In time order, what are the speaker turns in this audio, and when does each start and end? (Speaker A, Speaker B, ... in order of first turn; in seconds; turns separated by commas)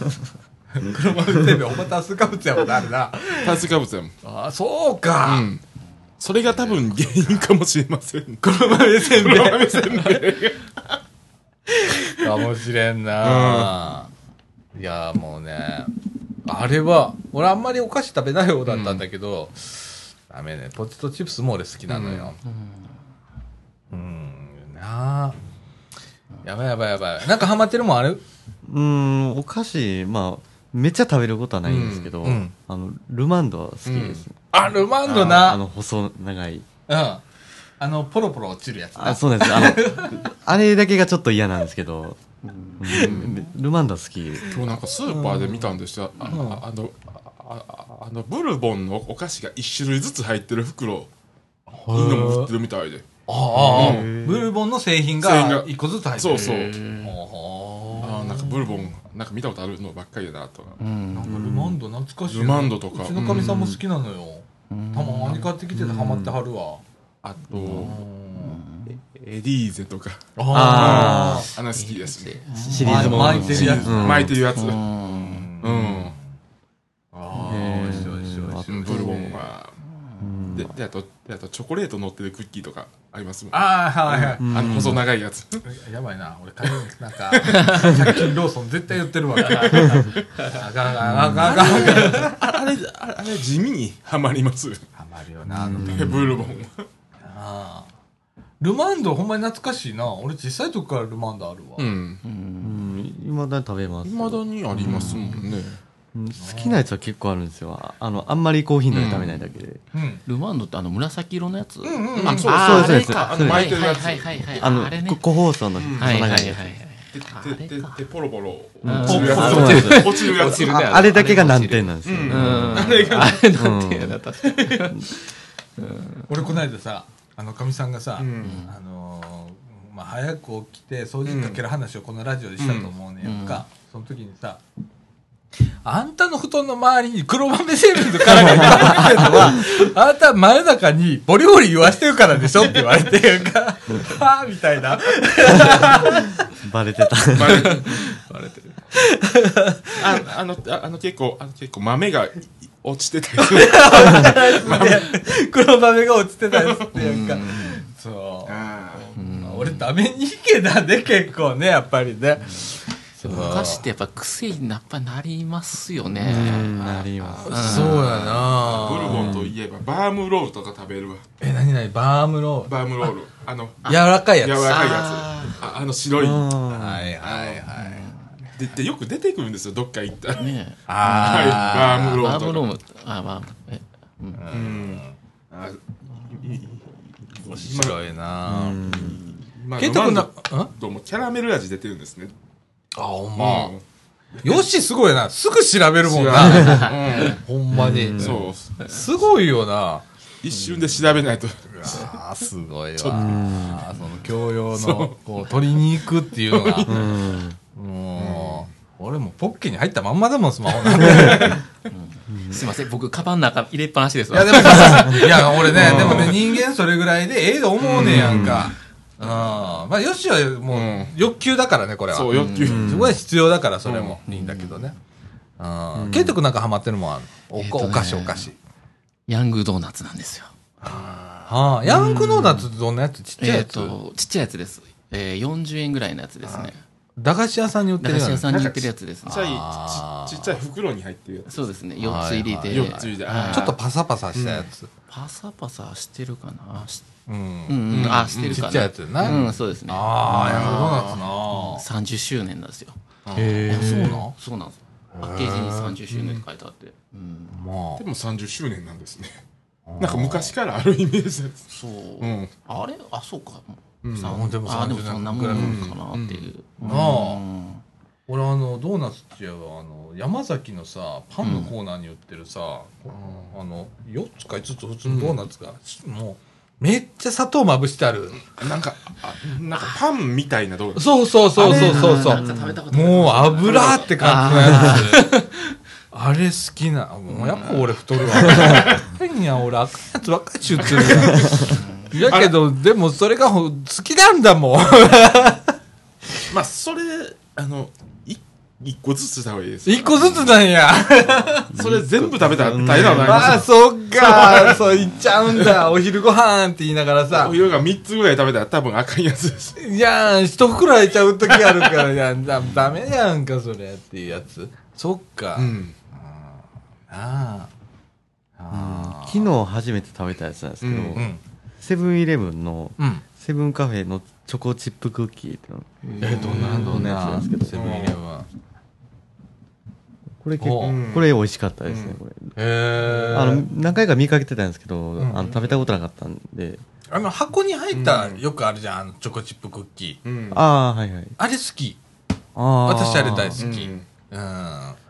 Speaker A: 0.7-3.6, Speaker B: 3.4-4.1, Speaker A: 4.2-5.5, Speaker B: 5.2-5.6, Speaker B: 6.2-10.8, Speaker A: 8.4-10.3, Speaker A: 12.2-14.1, Speaker B: 13.2-13.8, Speaker A: 14.8-15.9, Speaker A: 16.5-22.4, Speaker B: 18.7-19.0, Speaker B: 21.9-22.3, Speaker C: 22.5-22.9, Speaker A: 23.9-25.4, Speaker A: 26.4-28.2, Speaker D: 28.6-34.4, Speaker B: 31.6-32.1, Speaker A: 32.2-32.5, Speaker B: 33.9-34.2, Speaker A: 34.5-35.6, Speaker D: 35.1-36.7, Speaker B: 35.1-35.4, Speaker A: 36.9-37.2, Speaker A: 37.8-40.3, Speaker D: 39.0-42.2, Speaker C: 42.4-43.4, Speaker D: 42.8-44.7, Speaker B: 42.9-43.3, Speaker B: 44.5-51.1, Speaker A: 45.1-45.7, Speaker A: 46.3-46.6, Speaker A: 51.7-52.5, Speaker B: 51.9-54.1, Speaker A: 53.3-58.7, Speaker D: 53.5-54.5, Speaker B: 55.2-56.8, Speaker C: 56.3-57.1, Speaker B: 58.0-60.8, Speaker C: 60.8-61.5, Speaker A: 61.1-66.8, Speaker D: 61.3-61.7, Speaker B: 62.3-63.7, Speaker D: 63.2-63.8, Speaker C: 64.7-65.5, Speaker D: 65.7-66.4, Speaker B: 67.2-68.0, Speaker C: 67.5-69.0, Speaker A: 67.7-68.6, Speaker B: 69.0-74.8, Speaker A: 70.4-71.5, Speaker D: 70.5-71.5, Speaker C: 71.6-75.5, Speaker D: 72.6-74.4, Speaker A: 72.7-74.3, Speaker A: 75.1-76.2, Speaker B: 75.6-76.2, Speaker A: 77.1-79.4, Speaker D: 77.3-79.5, Speaker B: 78.7-79.7, Speaker D: 80.2-80.7, Speaker B: 80.5-85.7, Speaker A: 83.5-85.0, Speaker D: 84.4-85.0, Speaker A: 85.6-92.4, Speaker B: 87.3-88.3, Speaker D: 89.8-90.1, Speaker D: 91.1-91.5, Speaker B: 91.3-94.8, Speaker A: 95.0-96.3, Speaker D: 95.6-96.3, Speaker B: 95.7-96.8, Speaker A: 97.2-97.9, Speaker A: 98.6-102.0, Speaker B: 101.8-102.2, Speaker C: 102.2-102.9, Speaker D: 102.6-105.5, Speaker B: 104.0-105.8, Speaker C: 104.8-105.2, Speaker D: 106.1-109.8, Speaker A: 106.4-106.8, Speaker B: 108.9-109.3, Speaker C: 109.0-109.3, Speaker A: 109.9-110.2, Speaker C: 110.3-115.2, Speaker A: 111.8-112.5, Speaker B: 112.2-114.7, Speaker D: 112.5-113.9, Speaker D: 114.5-116.8, Speaker B: 115.8-116.4, Speaker C: 116.0-118.0, Speaker B: 117.1-121.2, Speaker D: 118.8-124.2, Speaker C: 118.8-126.2, Speaker A: 119.0-120.1, Speaker B: 122.0-123.4, Speaker D: 124.7-125.1, Speaker A: 126.3-134.6, Speaker B: 128.2-128.7, Speaker C: 128.4-128.7, Speaker B: 131.3-131.6, Speaker B: 132.6-132.9, Speaker C: 133.2-133.6, Speaker A: 135.8-146.3, Speaker D: 138.4-139.5, Speaker D: 145.7-145.9, Speaker D: 146.5-147.8, Speaker B: 147.3-147.9, Speaker C: 147.3-148.8, Speaker A: 148.9-150.0, Speaker B: 150.0-155.2, Speaker A: 153.4-158.6, Speaker C: 156.9-157.9, Speaker B: 158.5-159.1, Speaker C: 159.1-159.9, Speaker A: 159.2-163.8, Speaker C: 163.2-168.5, Speaker D: 166.2-168.1, Speaker B: 166.8-171.2, Speaker A: 167.5-169.3, Speaker D: 169.1-169.5, Speaker A: 171.4-172.7, Speaker B: 172.7-176.6, Speaker A: 173.9-174.9, Speaker C: 174.7-175.8, Speaker D: 176.2-177.1, Speaker A: 176.7-178.1, Speaker B: 177.2-177.7, Speaker C: 177.8-178.3, Speaker B: 178.6-182.7, Speaker C: 180.4-184.4, Speaker A: 180.9-182.2, Speaker A: 184.4-185.2, Speaker B: 184.5-188.0, Speaker A: 187.5-188.8, Speaker D: 188.5-189.2, Speaker B: 188.6-192.3, Speaker C: 188.9-189.3, Speaker A: 189.8-190.7, Speaker A: 193.0-193.8, Speaker B: 193.4-193.8, Speaker A: 194.4-200.1, Speaker B: 196.0-197.4, Speaker C: 196.6-196.8, Speaker D: 197.7-198.4, Speaker B: 198.1-199.0, Speaker B: 200.4-202.1, Speaker C: 200.5-201.2, Speaker A: 201.7-207.1, Speaker B: 203.0-203.6, Speaker D: 203.1-203.9, Speaker B: 204.7-205.2, Speaker B: 206.5-207.4, Speaker D: 206.8-207.6, Speaker A: 207.8-211.6, Speaker B: 208.2-208.7, Speaker B: 210.9-211.6, Speaker D: 211.1-211.4, Speaker C: 211.9-216.4, Speaker D: 212.3-212.6, Speaker A: 214.3-224.9, Speaker D: 214.9-215.2, Speaker B: 215.6-216.6, Speaker D: 215.8-216.2, Speaker B: 217.8-218.7, Speaker D: 218.0-218.7, Speaker C: 219.2-219.7, Speaker B: 220.7-221.1, Speaker B: 222.1-223.1, Speaker C: 222.3-222.9, Speaker D: 222.6-223.2, Speaker B: 223.8-224.2, Speaker C: 224.3-224.9, Speaker A: 225.6-228.6, Speaker D: 225.9-226.4, Speaker C: 227.6-228.5, Speaker C: 229.3-230.5, Speaker A: 230.8-234.0, Speaker B: 230.8-231.6, Speaker D: 231.9-232.7, Speaker C: 232.0-232.2, Speaker C: 233.4-236.8, Speaker B: 236.4-236.7, Speaker A: 237.2-238.5, Speaker C: 238.0-239.5, Speaker B: 238.5-241.7, Speaker A: 239.3-240.6, Speaker C: 241.5-243.7, Speaker A: 242.0-244.9, Speaker B: 242.7-243.8, Speaker B: 244.3-244.7, Speaker C: 245.1-247.1, Speaker A: 247.3-251.8, Speaker C: 247.7-253.0, Speaker B: 247.9-249.5, Speaker B: 250.3-251.2, Speaker B: 253.3-254.1, Speaker A: 253.3-254.3, Speaker C: 253.7-257.6, Speaker A: 255.1-256.0, Speaker B: 256.1-256.4, Speaker A: 257.5-258.1, Speaker B: 258.0-259.4, Speaker A: 259.9-260.6, Speaker B: 260.0-261.7, Speaker C: 261.7-267.8, Speaker B: 262.2-262.5, Speaker B: 264.0-264.4, Speaker A: 264.2-265.9, Speaker B: 265.5-267.1, Speaker A: 266.8-267.4, Speaker A: 268.3-278.5, Speaker C: 271.4-271.7, Speaker B: 273.1-273.5, Speaker B: 275.1-275.4, Speaker B: 278.5-281.1, Speaker A: 281.0-285.4, Speaker C: 281.6-285.7, Speaker D: 281.6-282.8, Speaker B: 281.7-281.9, Speaker B: 283.7-284.0, Speaker D: 284.7-285.0, Speaker A: 286.1-295.8, Speaker C: 287.3-288.9, Speaker B: 288.4-289.0, Speaker B: 290.8-292.6, Speaker C: 291.5-291.9, Speaker B: 296.5-300.5, Speaker A: 299.9-301.8, Speaker B: 301.7-304.8, Speaker C: 301.8-303.1, Speaker D: 302.4-303.7, Speaker A: 303.0-307.6, Speaker B: 305.6-305.9, Speaker B: 307.3-309.8, Speaker A: 309.8-317.7, Speaker B: 315.6-315.9, Speaker A: 318.6-319.5, Speaker D: 318.7-321.3, Speaker B: 320.8-321.2, Speaker A: 321.1-321.4, Speaker D: 321.8-328.1, Speaker A: 323.0-323.2, Speaker C: 326.1-327.0, Speaker A: 326.2-328.5, Speaker B: 327.7-328.2, Speaker D: 330.4-332.6, Speaker A: 330.6-331.0, Speaker B: 330.8-331.3, Speaker B: 331.9-332.2, Speaker A: 332.6-333.7, Speaker D: 333.1-336.8, Speaker A: 335.2-335.5, Speaker A: 337.1-340.2, Speaker B: 337.9-338.4, Speaker B: 340.2-340.6, Speaker D: 340.5-341.4, Speaker A: 341.4-342.0, Speaker D: 342.6-343.6, Speaker A: 342.8-345.0, Speaker B: 343.6-344.1